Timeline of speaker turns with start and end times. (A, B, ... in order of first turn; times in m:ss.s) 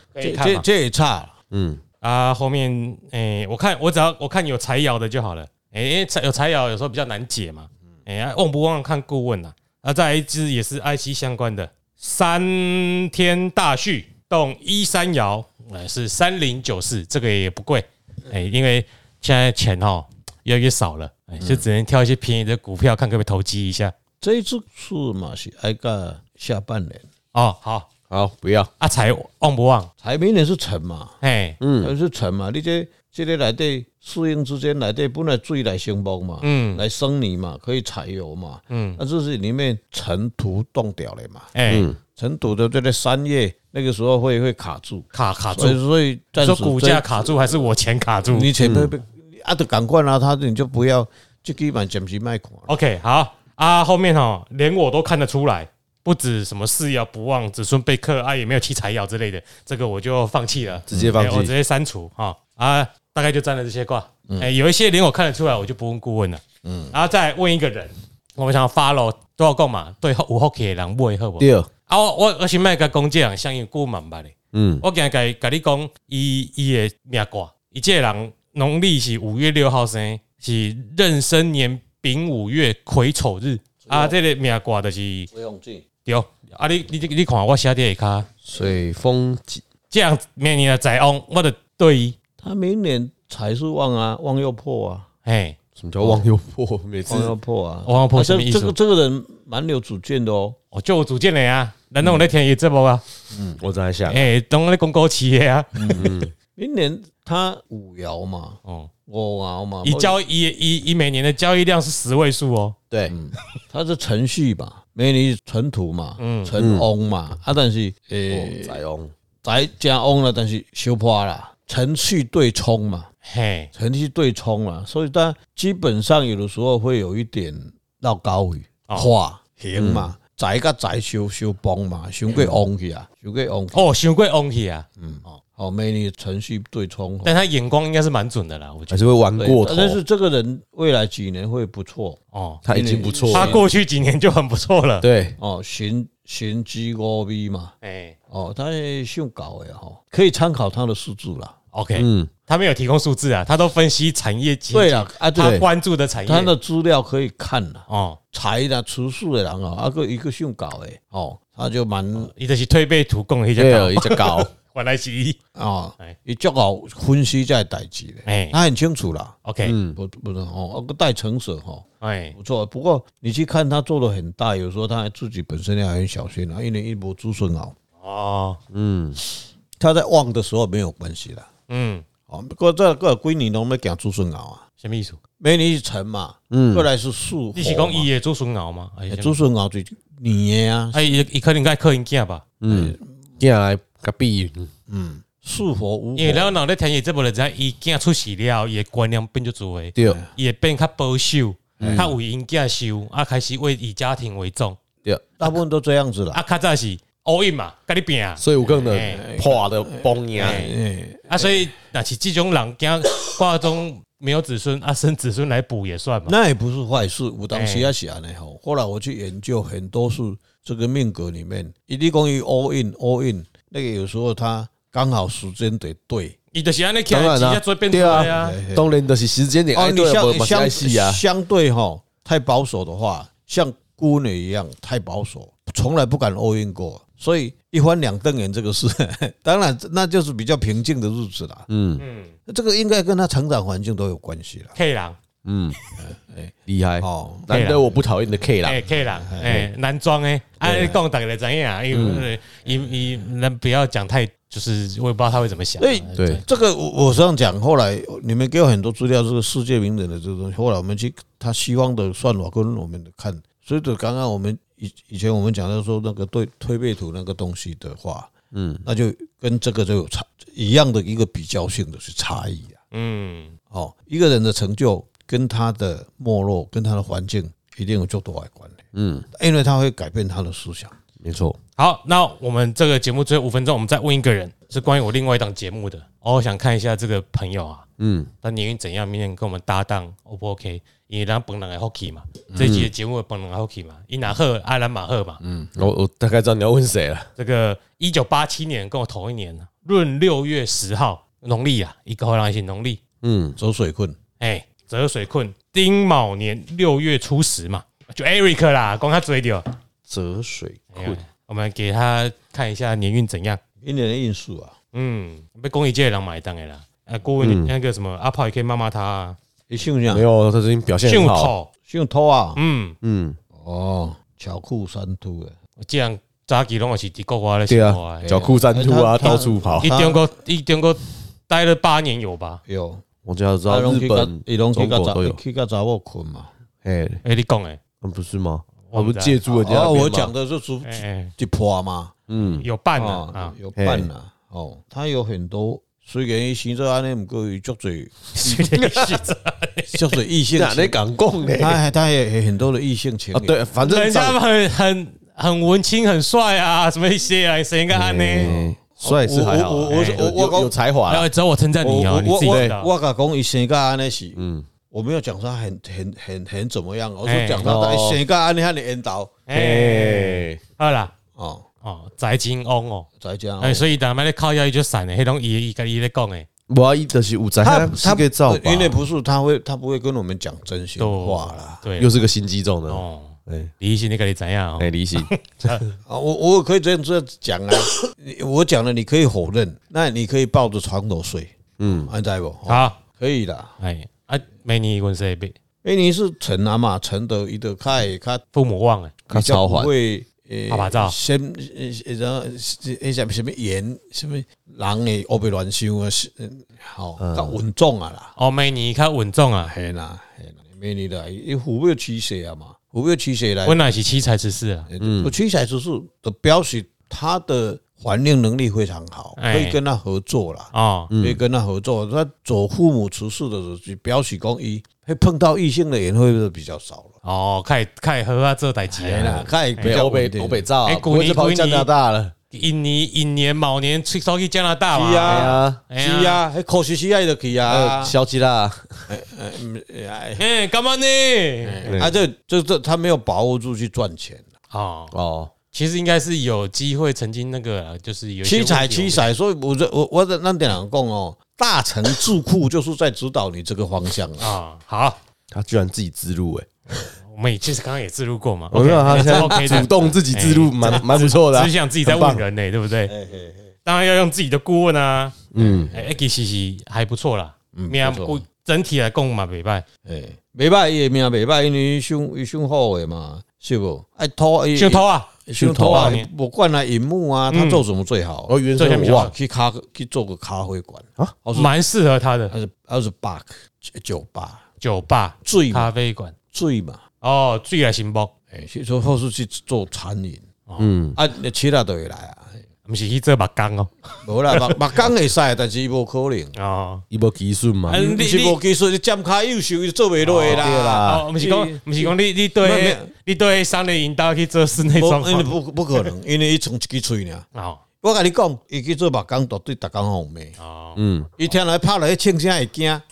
0:00.1-0:00.6 A
0:00.2-0:01.4 B
0:01.5-0:01.8 C
0:02.0-0:23.9 A
0:24.2-0:27.1 B
0:27.3-0:27.9 A
0:28.1-0:28.7 C
0:28.8-0:29.9 A
0:30.0-0:31.2 B
0:31.2-0:31.6 A
0:31.6-0:31.9 C
0:31.8-0:41.5 B
0:36.4-0:36.8 A
0:38.7-0:39.0 A
0:41.6-0:41.9 A
0:41.7-0:42.0 C
0:42.2-0:47.1 B
0:45.1-0:45.8 A
0:46.4-0:48.5 A
0:48.3-0:52.7 B
0:48.6-0:48.9 C
0:52.7-1:25.3 A
1:00.9-1:01.5 C
1:00.9-1:01.2 B
1:06.6-1:06.9 B
1:11.4-1:11.7 C
1:14.5-1:14.8 C
1:23.8-1:24.2 B
1:25.3-1:25.8 B
1:26.0-1:28.3 A
1:28.4-1:29.6 C
1:29.9-1:32.2 A
1:32.4-1:35.1 B
1:35.3-1:35.6 A
1:35.8-1:37.3 C
1:36.0-1:36.3 B
1:37.1-1:40.6 B
1:37.9-1:38.8 A
1:40.7-1:43.0 A
1:43.3-1:43.6 B
1:43.6-1:44.3 C
1:44.1-1:46.2 A
1:45.8-1:50.2 B
1:46.0-1:46.3 C
1:49.8-1:52.8 A
1:53.1-1:58.8 B
1:56.2-1:56.5 A
1:56.6-1:56.9 C
1:58.3-1:59.1 C
1:59.4-2:03.1 B
2:03.2-2:03.7 A
2:03.7-2:13.8 B
2:09.8-2:10.1 C
2:12.3-2:12.6 C
2:13.7-2:14.9 A
2:15.0-2:17.4 B
2:17.2-2:19.0 A
2:18.9-2:20.0 C
2:19.4-2:23.6 B
2:22.3-2:22.6 A
2:22.6-2:23.6 C
2:23.3-2:25.1 A
2:25.0-2:25.4 C
2:25.4-2:27.7 B
2:27.8-2:28.2 A
2:28.3-2:31.6 B
2:31.7-2:36.5 A
2:32.0-2:32.3 C
2:34.7-2:35.6 B
2:35.4-2:35.7 C
2:36.2-2:42.3 B
2:37.9-2:38.2 A
2:42.2-2:45.4 A
2:43.6-2:44.5 C
2:45.6-2:49.4 B
2:48.3-2:48.6 A
2:49.4-2:49.8 A
2:49.6-2:50.0 C
2:50.0-2:57.8 B
2:52.0-2:52.4 A
2:58.0-2:58.6 A
2:58.7-2:59.2 C
2:59.8-3:01.5 B
3:01.7-3:02.0 A
3:02.3-3:04.6 B
3:04.8-3:05.2 A
3:05.4-3:08.1 B
3:06.5-3:06.9 C
3:07.6-3:09.4 A
3:09.1-3:11.1 B
3:10.9-3:12.4 A
3:12.6-3:14.7 C
3:12.7-3:13.2 B
3:14.9-3:16.6 B
3:16.2-3:24.8 A
3:20.0-3:20.3 B
3:21.8-3:22.1 B
3:21.8-3:22.1 C
3:25.4-3:26.4 B
3:26.3-3:29.2 A
3:28.4-3:30.7 C
3:28.6-3:31.7 B
3:30.4-3:30.8 A
3:31.3-3:36.3 A
3:36.3-3:46.4 B
3:37.5-3:37.9 A
3:46.5-3:48.6 A
3:47.1-3:51.2 C
3:48.1-3:48.9 B
3:49.7-4:01.7 B
4:01.7-4:02.0 C
4:02.0-4:02.3 A
4:02.5-4:04.8 B
4:04.8-4:05.2 A
4:05.4-4:05.8 C
4:06.0-4:07.5 B
4:06.7-4:08.9 C
4:07.5-4:07.8 A
4:08.6-4:16.4 A
4:09.2-4:09.6 B
4:10.6-4:11.0 C
4:11.9-4:12.3 C
4:15.8-4:28.3 B
4:16.2-4:16.4 C
4:28.5-4:28.8 C
4:28.8-4:32.8 B
4:32.9-4:33.5 A
4:33.7-4:38.8 B
4:38.9-4:39.3 C
4:39.3-4:40.9 B
4:41.2-4:41.6 C
4:41.8-4:47.9 A
4:48.0-4:48.3 C
4:48.4-4:55.4 A
4:52.6-4:52.9 C
4:55.4-4:55.8 B
4:55.8-4:57.3 C
4:57.4-5:03.0 A
5:03.2-5:03.6 C
5:03.6-5:04.2 B
5:04.4-5:09.7 A
5:10.1-5:11.2 C
5:10.9-5:13.6 A
5:13.8-5:14.8 B
5:14.9-5:19.4 A
5:17.4-5:17.7 C
5:19.7-5:20.2 B
5:20.1-5:21.5 C
5:21.0-5:21.7 A
5:21.9-5:22.6 B
5:22.6-5:23.0 A
5:23.0-5:23.4 C
5:23.6-5:25.6 B
5:25.8-5:28.3 A
5:27.7-5:29.9 C
5:28.2-5:30.3 B
5:29.2-5:32.6 A
5:32.7-5:33.0 B
5:33.2-5:35.4 C
5:33.7-5:36.5 B
5:36.8-5:37.2 C
5:37.2-5:37.8 A
5:38.0-5:40.3 C
5:38.9-5:39.4 A
5:39.5-5:42.1 B
5:40.8-5:41.3 A
5:42.3-5:42.7 C
5:42.4-5:43.6 A
5:43.0-5:48.7 B
5:43.8-5:44.1 C
5:48.4-5:50.0 A
5:48.8-5:49.2 C
5:49.9-5:51.0 B
5:50.6-5:51.8 C
5:51.6-5:53.6 B
5:53.3-5:54.4 C
5:53.8-5:58.5 A
5:57.9-6:01.3 C
5:58.4-6:00.8 B
5:59.9-6:00.2 A
6:01.1-6:02.9 A
6:01.8-6:09.3 B
6:02.5-6:02.7 C
6:04.4-6:04.7 C
6:07.2-6:07.7 A
6:07.6-6:08.2 C
6:09.5-6:11.1 A
6:09.5-6:10.6 C
6:11.4-6:11.7 B
6:11.8-6:13.1 A
6:13.2-6:13.9 B
6:13.6-6:16.5 A
6:16.7-6:19.0 C
6:17.6-6:21.8 B
6:21.0-6:22.1 A
6:22.0-6:23.7 C
6:22.9-6:25.9 A
6:24.8-6:25.8 C
6:26.1-6:33.7 B
6:31.8-6:32.1 C
6:32.7-6:33.0 A
6:33.8-6:35.6 A
6:35.8-6:38.4 B
6:38.5-6:39.2 A
6:39.3-6:39.9 C
6:39.3-6:48.3 B
6:40.7-6:41.2 A
6:47.2-6:47.6 C
6:48.4-6:49.7 A
6:49.6-6:53.8 B
6:53.6-6:54.9 A
6:54.9-7:07.1 B
6:55.0-6:55.4 C
6:59.4-6:59.8 A
7:00.7-7:01.1 A
7:01.1-7:01.4 C
7:07.2-7:10.0 A
7:08.9-7:10.7 B
7:09.8-7:12.3 C
7:10.9-7:11.9 A
7:12.5-7:16.4 A
7:14.9-7:18.2 B
7:15.2-7:15.8 C
7:17.7-7:19.1 C
7:19.1-7:20.4 B
7:20.4-7:22.0 A
7:21.6-7:24.5 B
7:21.8-7:22.2 C
7:24.7-7:25.1 A
7:25.1-7:25.5 C
7:25.7-7:29.3 A
7:28.4-7:34.5 B
7:34.4-7:35.2 A
7:35.5-7:36.7 C
7:37.2-7:43.1 A
7:38.7-7:42.4 C
7:39.1-7:39.9 B
7:43.1-7:43.7 B
7:43.8-7:49.9 A
7:45.5-7:45.9 C
7:45.6-7:46.0 B
7:47.7-7:48.4 B
7:50.0-8:01.7 B
7:54.8-7:56.3 A
7:55.6-7:56.2 C
7:57.5-7:57.8 A
7:58.5-7:59.3 C
7:58.8-7:59.3 A
8:01.6-8:02.5 A
8:02.5-8:04.6 B
8:04.8-8:06.3 A
8:05.4-8:05.9 B
8:06.5-8:07.0 B
8:07.2-8:08.3 A
8:08.5-8:10.5 B
8:10.7-8:11.0 A
8:10.8-8:11.2 C
8:11.2-8:12.6 B
8:12.9-8:14.8 A
8:14.2-8:16.6 B
8:16.6-8:17.0 A
8:17.1-8:18.0 C
8:17.9-8:18.6 A
8:17.9-8:23.1 B
8:20.2-8:26.1 A
8:20.4-8:21.3 C
8:24.9-8:27.5 B
8:27.5-8:27.8 A
8:28.0-8:30.6 B
8:30.6-8:31.0 A
8:31.0-8:31.3 C
8:31.4-8:33.0 B